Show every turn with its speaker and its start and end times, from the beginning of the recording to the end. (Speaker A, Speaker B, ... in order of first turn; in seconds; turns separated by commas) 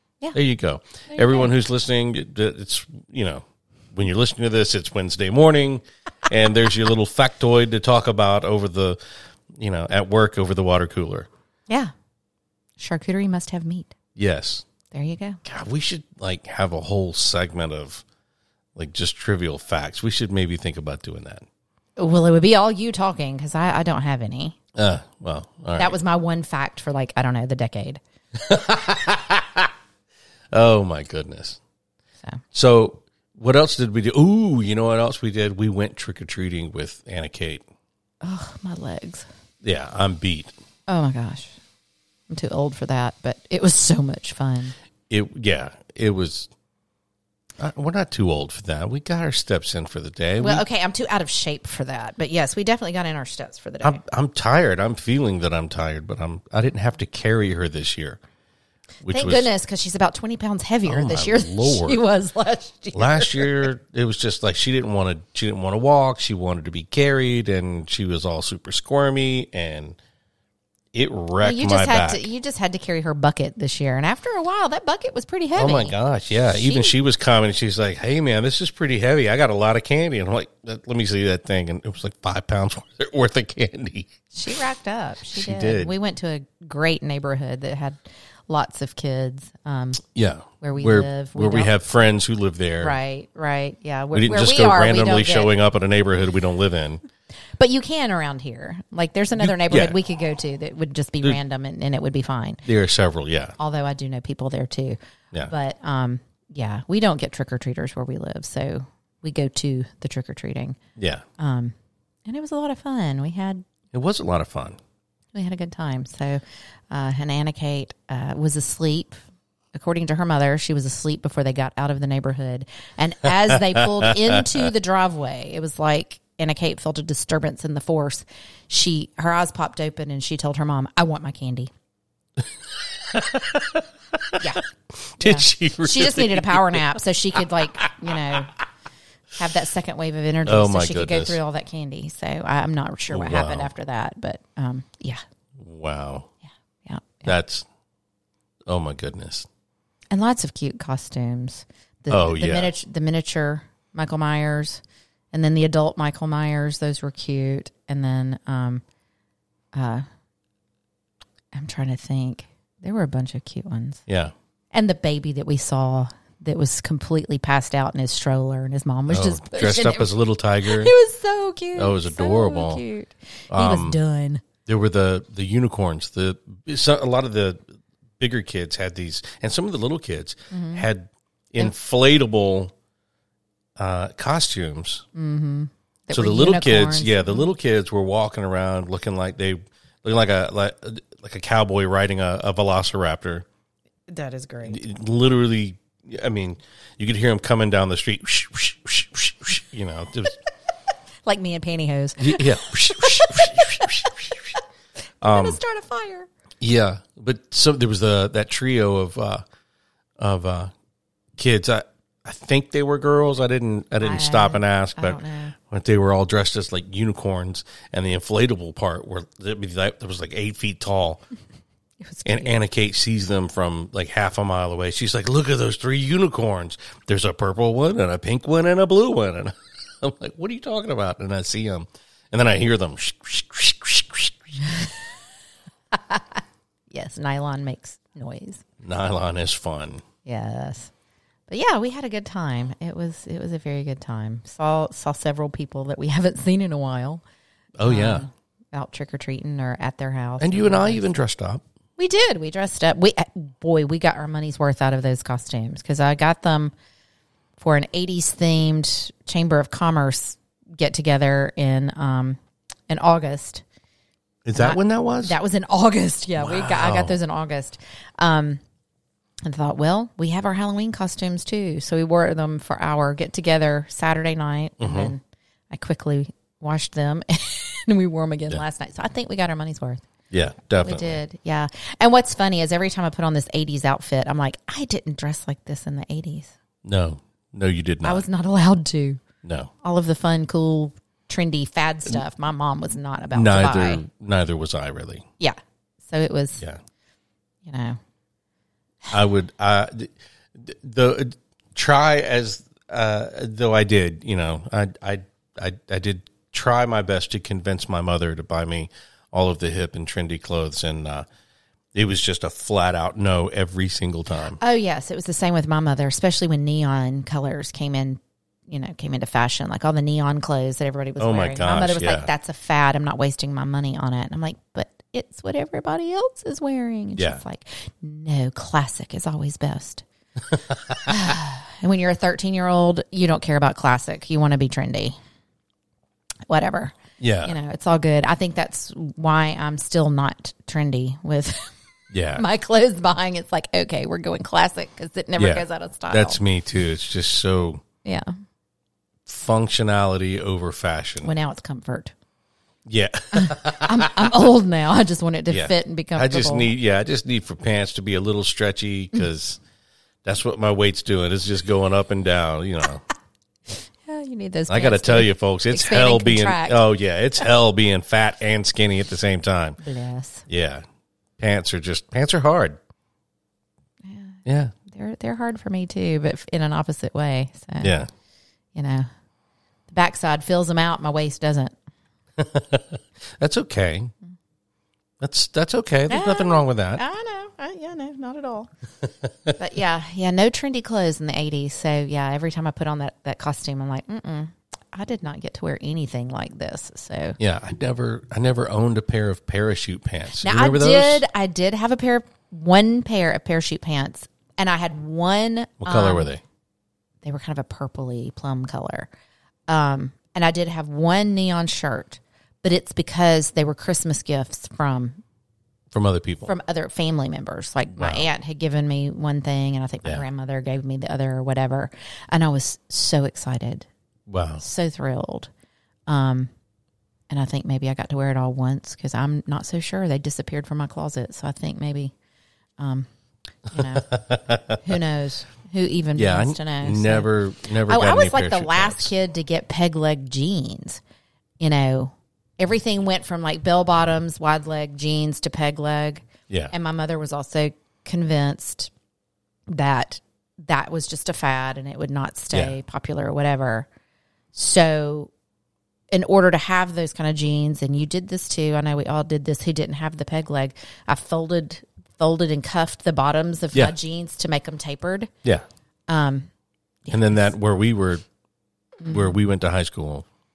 Speaker A: 0.3-9.0, Speaker B: 1.1-1.5, Speaker A: 9.5-11.3, Speaker B: 12.8-13.9, Speaker A: 14.2-14.6, Speaker B: 14.9-15.4, Speaker A: 15.4-18.0, Speaker A: 18.8-21.4, Speaker B: 22.0-24.6, Speaker A: 24.7-26.0, Speaker B: 25.8-28.0, Speaker A: 28.3-29.7, Speaker A: 30.5-31.6, Speaker A: 32.5-37.6, Speaker B: 38.2-39.3, Speaker A: 39.6-40.5, Speaker B: 40.9-41.5, Speaker B: 42.3-44.7, Speaker A: 45.1-46.5, Speaker A: 47.6-50.6, Speaker B: 50.4-54.0, Speaker A: 53.8-58.2, Speaker A: 59.0-59.5, Speaker B: 59.1-63.7, Speaker A: 60.9-62.0, Speaker A: 62.9-70.0, Speaker A: 70.9-72.3, Speaker B: 71.4-75.9, Speaker A: 75.5-84.1, Speaker B: 76.5-76.9, Speaker B: 84.3-90.0, Speaker A: 85.3-85.9, Speaker A: 90.1-93.0, Speaker B: 90.6-91.7, Speaker B: 92.8-95.5, Speaker A: 94.1-97.0, Speaker B: 97.6-102.6, Speaker A: 99.4-100.0, Speaker A: 102.6-103.5, Speaker B: 103.6-110.8, Speaker A: 111.0-111.2, Speaker B: 111.4-111.7, Speaker B: 112.3-113.7, Speaker A: 113.9-114.8, Speaker B: 115.3-119.2, Speaker B: 119.7-131.7, Speaker A: 123.7-124.1, Speaker A: 132.8-138.4, Speaker B: 134.4-134.6, Speaker B: 135.2-138.5, Speaker B: 139.3-145.2, Speaker A: 140.4-141.4, Speaker A: 143.1-143.7, Speaker A: 145.6-146.3, Speaker B: 146.8-147.3, Speaker A: 147.2-147.7, Speaker A: 148.7-149.5, Speaker B: 150.1-154.8, Speaker A: 152.1-152.7, Speaker B: 155.3-158.8, Speaker B: 159.7-160.0, Speaker B: 161.5-164.0, Speaker A: 164.1-164.3, Speaker B: 164.7-174.4, Speaker A: 169.1-170.9, Speaker A: 171.8-172.8, Speaker A: 173.5-174.0, Speaker A: 174.7-177.6, Speaker A: 178.2-182.7, Speaker B: 180.5-180.9, Speaker A: 183.8-185.1, Speaker B: 185.1-187.5, Speaker A: 186.1-193.4, Speaker B: 194.1-194.8, Speaker A: 194.6-200.4, Speaker B: 201.2-204.2, Speaker A: 202.2-204.5, Speaker A: 205.2-205.6, Speaker B: 205.2-206.3, Speaker A: 206.6-209.4, Speaker A: 210.2-210.7, Speaker A: 211.4-221.2, Speaker B: 214.0-215.6, Speaker B: 222.0-222.6, Speaker A: 222.2-234.6, Speaker B: 235.9-236.4, Speaker B: 236.9-238.6, Speaker A: 238.8-240.0, Speaker B: 240.2-240.9, Speaker B: 241.5-247.2, Speaker A: 247.8-248.2, Speaker B: 247.8-251.1, Speaker A: 250.4-251.6, Speaker B: 252.0-256.7, Speaker B: 257.6-263.6, Speaker A: 264.4-265.4, Speaker B: 264.5-268.6, Speaker A: 266.4-267.2, Speaker B: 269.4-280.1, Speaker A: 274.8-275.1, Speaker A: 280.3-281.2, Speaker B: 280.8-286.5, Speaker A: 286.8-288.2, Speaker B: 288.0-289.2, Speaker A: 289.4-289.7, Speaker B: 289.8-294.0, Speaker A: 293.3-295.2, Speaker B: 295.4-296.6, Speaker B: 297.6-298.0, Speaker A: 299.1-311.2, Speaker A: 311.9-314.6, Speaker B: 314.6-330.0, Speaker A: 321.2-322.3, Speaker A: 330.5-331.0, Speaker B: 331.0-335.1, Speaker B: 336.5-341.7, Speaker A: 337.2-337.5, Speaker A: 342.1-342.4, Speaker B: 342.3-346.4, Speaker A: 345.4-347.8, Speaker B: 348.0-348.3, Speaker A: 349.3-351.3, Speaker B: 351.2-352.1, Speaker A: 352.9-354.3, Speaker B: 353.3-356.7, Speaker A: 355.5-359.6, Speaker A: 360.2-363.0, Speaker B: 364.0-366.8, Speaker A: 364.7-369.8, Speaker B: 369.8-370.4, Speaker A: 370.5-370.8, Speaker A: 371.4-372.8, Speaker B: 374.1-377.9, Speaker A: 374.4-374.7, Speaker A: 377.8-378.1, Speaker B: 378.7-379.1, Speaker B: 379.9-381.7, Speaker A: 382.4-384.1, Speaker A: 385.2-387.0, Speaker B: 386.1-388.7, Speaker B: 389.5-397.4, Speaker A: 397.4-401.2, Speaker B: 400.4-406.3, Speaker A: 405.8-406.4, Speaker B: 407.2-409.1, Speaker B: 409.7-415.2, Speaker A: 415.9-416.5, Speaker B: 416.4-423.9, Speaker A: 418.0-418.2, Speaker A: 424.3-424.6, Speaker B: 424.6-425.5, Speaker B: 426.1-426.5, Speaker B: 427.3-432.1, Speaker B: 432.8-433.1, Speaker B: 433.7-437.3, Speaker A: 434.1-434.8, Speaker A: 436.1-439.1, Speaker B: 437.9-441.0, Speaker B: 441.6-448.9, Speaker B: 449.7-453.9, Speaker B: 454.5-455.3, Speaker B: 456.1-465.3, Speaker B: 466.1-466.5, Speaker B: 467.0-467.5, Speaker A: 467.1-468.2, Speaker B: 469.0-469.3, Speaker A: 469.0-470.2